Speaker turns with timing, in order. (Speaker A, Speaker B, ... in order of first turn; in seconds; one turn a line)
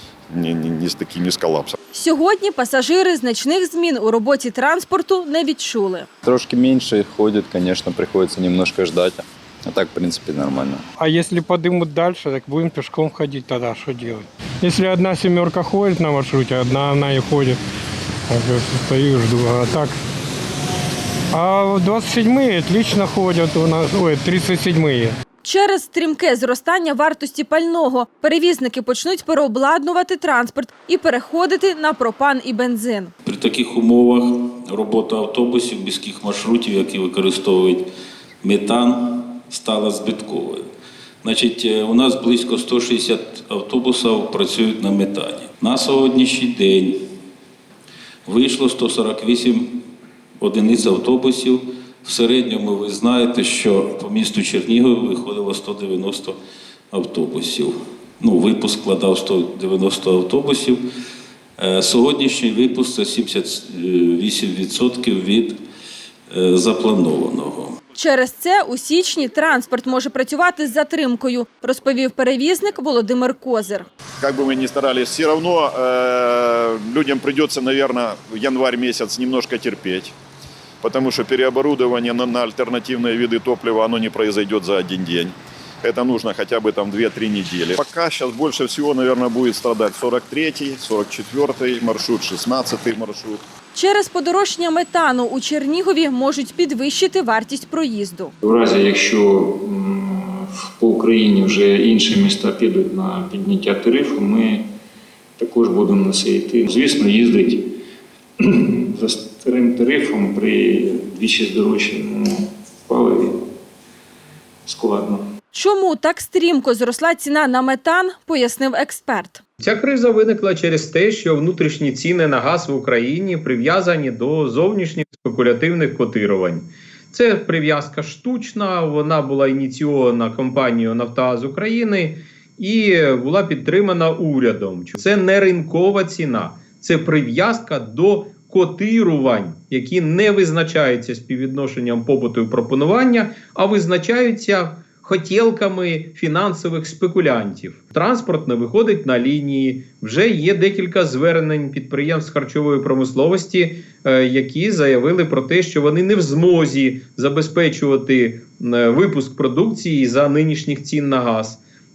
Speaker A: 0.3-1.7
Speaker B: 1.9-6.1
Speaker C: 6.2-10.8
Speaker D: 11.0-17.6
Speaker D: 18.3-19.9
Speaker D: 21.3-25.1
Speaker B: 25.4-33.1
Speaker E: 33.2-37.9
Speaker E: 38.4-40.6
Speaker E: 41.2-47.0
Speaker E: 48.2-49.8
Speaker E: 50.4-56.4
Speaker E: 56.9-60.8
Speaker E: 61.6-65.6
Speaker E: 66.3-67.8
Speaker B: 68.0-73.8
Speaker A: 74.2-80.1
Speaker A: 80.8-93.4
Speaker B: 93.7-98.3
Speaker F: 98.4-100.0
Speaker F: 100.8-103.3
Speaker F: 105.4-107.5
Speaker F: 109.0-112.1
Speaker F: 114.7-115.1
Speaker B: 115.5-119.4
Speaker G: 119.6-161.6